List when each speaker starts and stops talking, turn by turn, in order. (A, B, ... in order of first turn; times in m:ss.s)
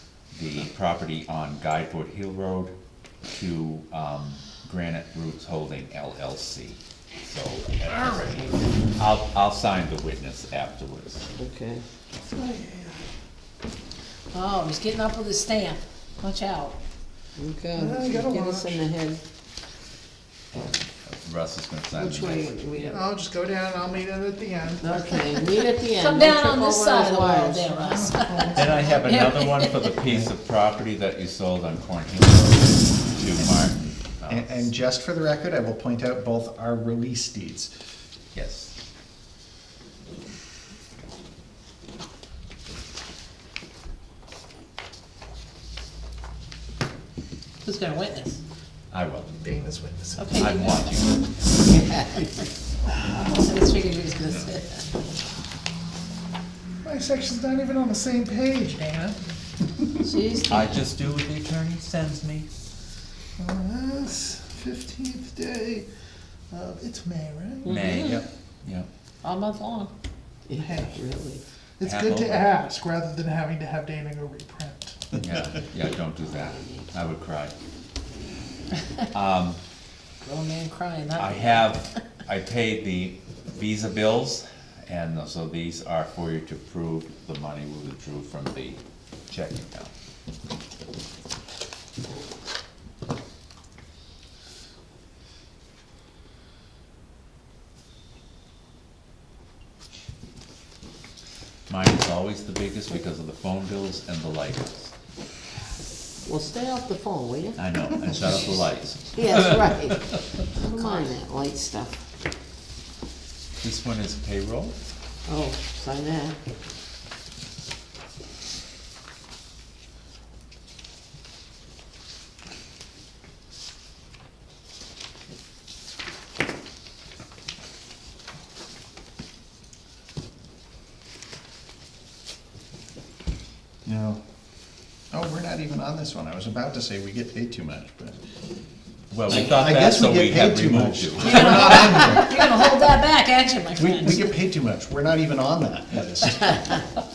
0:00.3-0:02.7 A
0:03.3-0:11.3 A
0:11.4-0:11.8 B
0:12.2-0:13.0 C
0:14.3-0:16.8 D
0:17.4-0:19.2 B
0:17.7-0:18.9 C
0:21.0-0:23.0 A
0:22.0-0:23.1 B
0:22.9-0:25.4 C
0:24.8-0:27.7 B
0:25.8-0:29.9 D
0:27.7-0:29.1 C
0:28.5-0:34.7 A
0:34.3-0:37.7 E
0:38.3-0:38.7 A
0:47.6-0:48.4 D
0:48.9-0:49.4 A
0:49.4-0:50.7 C
0:50.2-0:50.8 D
0:50.4-0:51.2 A
0:53.2-0:54.8 D
0:56.8-0:59.2 C
1:00.0-1:00.7 D
1:00.5-1:02.5 A
1:03.4-1:05.8 C
1:06.5-1:07.9 C
1:07.6-1:08.0 B
1:07.6-1:08.9 A
1:09.2-1:09.9 D
1:10.5-1:11.4 B
1:10.5-1:11.0 C
1:11.8-1:15.1 C
1:11.8-1:12.5 A
1:15.2-1:17.5 A
1:19.1-1:19.6 A
1:20.2-1:21.8 D
1:21.2-1:29.9 A
1:41.7-1:44.9 A
1:46.2-1:47.6 B
1:47.6-1:50.0 A
1:49.1-1:52.1 B
1:50.7-1:51.1 D
1:53.6-1:54.7 A
1:55.2-1:56.4 B
2:13.8-2:14.2 E
2:15.1-2:18.2 E
2:19.1-2:22.1 A
2:19.3-2:22.5 E
2:21.2-2:24.3 D
2:23.7-2:26.6 E